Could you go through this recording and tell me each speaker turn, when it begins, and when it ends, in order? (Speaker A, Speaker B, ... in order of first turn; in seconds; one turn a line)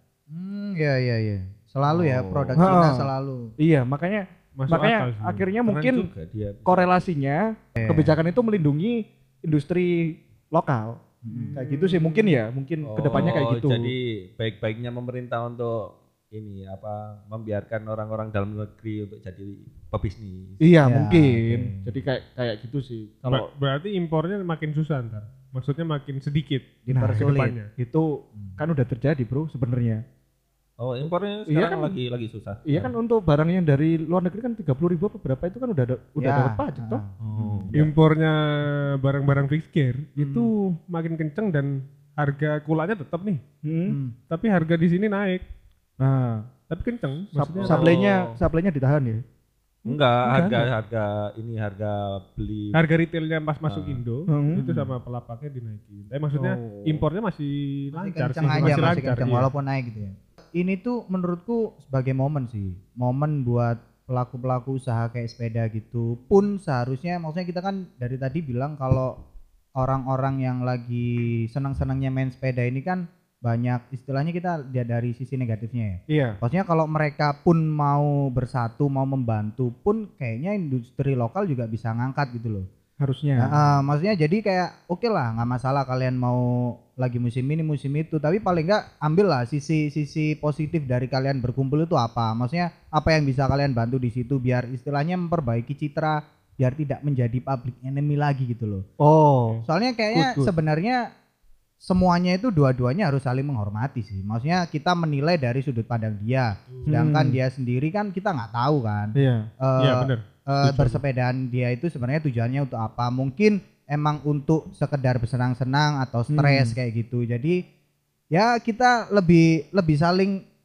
Speaker A: 0.3-3.5
Speaker B: 1.9-2.6
Speaker C: 2.6-6.1
Speaker D: 4.6-6.0
Speaker B: 5.9-6.9
Speaker C: 6.7-13.9
Speaker A: 7.8-8.1
Speaker A: 11.2-11.6
Speaker D: 11.3-12.4
Speaker B: 12.8-20.6
Speaker C: 20.6-23.5
Speaker A: 20.8-21.9
Speaker D: 23.3-27.7
Speaker A: 26.9-27.6
Speaker C: 26.9-30.0
Speaker B: 30.8-32.9
Speaker C: 31.5-31.9
Speaker C: 32.7-37.0
Speaker A: 36.2-37.7
Speaker B: 37.2-37.9
Speaker D: 37.7-43.4
Speaker A: 40.1-40.5
Speaker C: 43.6-44.0
Speaker A: 43.9-44.1
Speaker D: 44.3-45.4
Speaker C: 46.0-46.5
Speaker D: 46.7-48.0
Speaker C: 47.4-49.2
Speaker B: 47.6-48.4
Speaker B: 49.9-52.8
Speaker D: 49.9-50.7
Speaker D: 52.7-59.5
Speaker B: 53.6-54.0
Speaker C: 54.3-54.7
Speaker A: 54.5-54.9
Speaker C: 56.4-57.0
Speaker A: 57.9-69.2
Speaker C: 58.5-59.4
Speaker A: 69.8-82.7
Speaker C: 76.1-76.4
Speaker C: 83.0-83.5
Speaker A: 83.4-98.8
Speaker C: 99.0-100.5
Speaker A: 99.7-101.1
Speaker A: 101.8-117.6
Speaker C: 106.9-107.4
Speaker C: 109.2-109.5
Speaker D: 109.8-111.0
Speaker C: 116.3-116.7
Speaker A: 118.3-120.4